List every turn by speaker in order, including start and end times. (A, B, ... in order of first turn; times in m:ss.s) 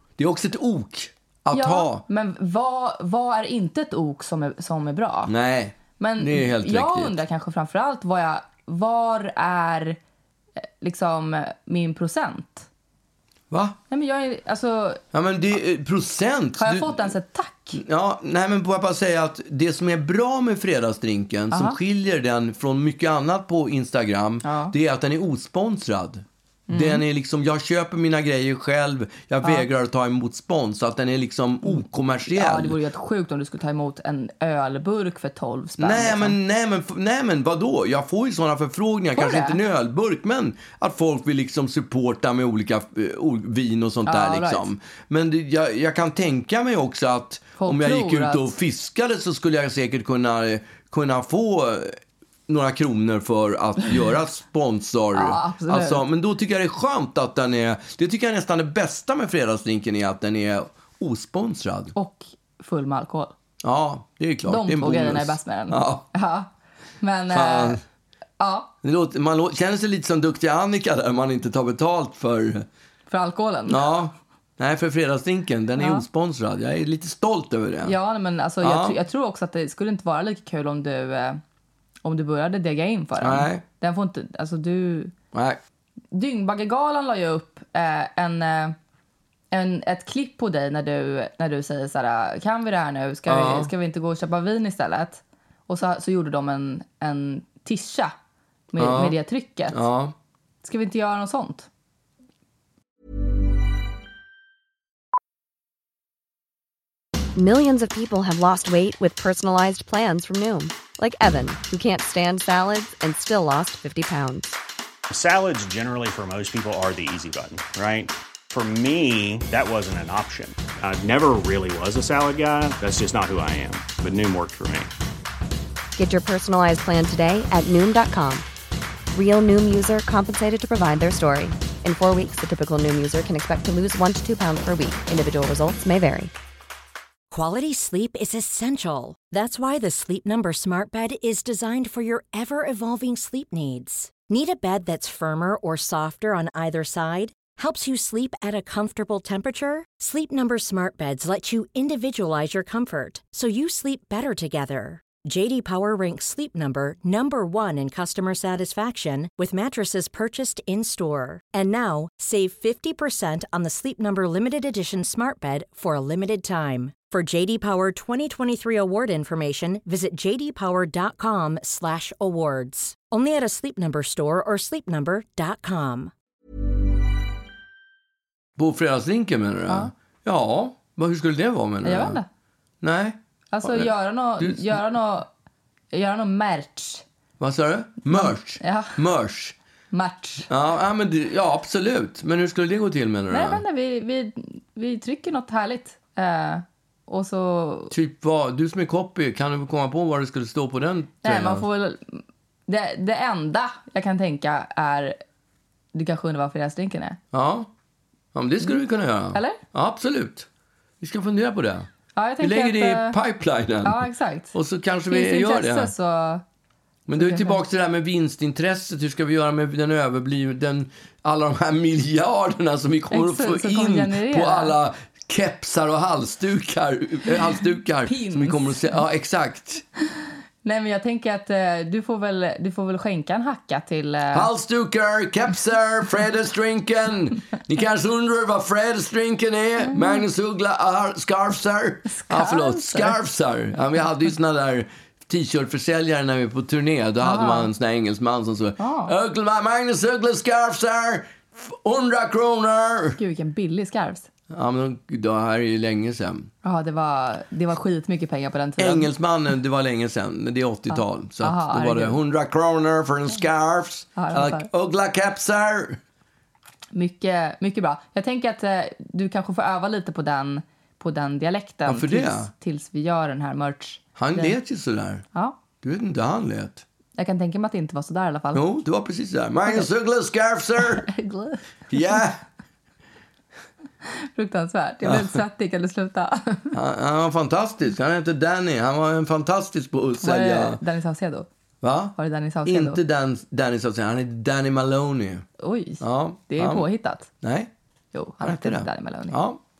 0:00.2-0:02.0 A
0:01.5-0:05.3 B
0:05.3-0:07.1 A
0:06.0-0:10.0 B
0:10.8-0:12.7 B
0:13.5-0:13.8 A
0:13.9-0:15.0 B
0:15.1-0:17.0 A
0:16.6-0:17.8 B
0:17.7-0:32.8 A
0:21.5-0:21.8 B
0:24.4-0:24.7 B
0:26.7-0:27.0 B
0:31.6-0:36.4 B
0:35.8-0:52.0 A
0:39.2-0:39.6 B
0:44.1-0:44.7 B
0:47.6-0:48.5 B
0:52.5-1:01.9 A
0:55.1-0:56.0 B
1:01.9-1:03.3 B
1:03.6-1:06.0 A
1:04.4-1:06.5 B
1:07.0-1:07.8 B
1:07.3-1:07.8 A
1:08.4-1:08.7 B
1:08.8-1:12.7 A
1:13.1-1:13.8 B
1:13.7-1:17.9 A
1:15.8-1:16.0 B
1:17.8-1:21.4 B
1:18.6-1:19.0 A
1:22.0-1:25.1 B
1:23.2-1:23.6 A
1:25.3-1:25.6 A
1:26.1-1:28.8 B
1:29.5-1:38.1 B
1:33.3-1:33.7 A
1:38.7-1:39.8 B
1:38.8-1:39.2 A
1:39.7-1:40.1 A
1:40.6-1:41.7 B
1:47.4-1:54.6 C
1:55.1-2:04.9 D
2:06.0-2:08.4 C
2:09.1-2:16.3 C
2:17.3-2:56.1 E
2:58.6-3:02.2 A
3:01.8-3:02.3 B
3:02.8-3:04.8 A
3:03.5-3:05.3 B
3:05.9-3:07.0 B
3:07.4-3:09.6 A
3:08.1-3:08.9 B
3:09.9-3:10.5 B
3:10.5-3:13.6 A
3:13.3-3:17.9 B
3:17.9-3:21.6 A
3:21.2-3:25.2 B
3:25.9-3:27.2 B
3:27.3-3:27.7 A
3:28.3-3:30.5 A
3:29.3-3:29.6 B
3:31.0-3:31.9 A
3:32.1-3:33.2 B
3:32.4-3:35.9 A
3:33.8-3:34.5 B
3:35.1-3:36.4 B
3:37.1-3:49.8 A
3:37.1-3:37.6 B
3:43.1-3:44.8 B
3:48.1-3:49.0 B
3:50.6-3:54.5 B
3:54.3-4:13.2 A
3:59.9-4:00.2 B
4:02.1-4:03.2 B
4:07.2-4:07.7 B
4:08.8-4:09.1 B
4:13.2-4:14.3 B
4:14.5-4:16.5 A
4:16.6-4:19.1 B
4:18.8-4:26.0 A
4:20.9-4:22.2 B
4:24.2-4:24.7 B
4:26.9-4:34.6 B
4:31.9-4:32.5 A
4:34.2-4:35.2 A
4:35.8-4:36.8 A
4:37.2-4:38.6 B
4:38.5-4:41.1 A
4:41.0-4:42.2 B
4:41.9-4:42.4 A
4:44.0-4:46.8 B
4:46.7-4:50.8 A
4:50.2-4:51.4 B
4:51.8-4:52.1 A
4:52.2-4:53.0 B
4:52.6-4:55.4 A
4:55.6-4:57.3 B
4:56.0-4:56.9 A
4:57.4-4:57.7 A
4:58.1-4:59.4 B
4:58.4-4:59.6 A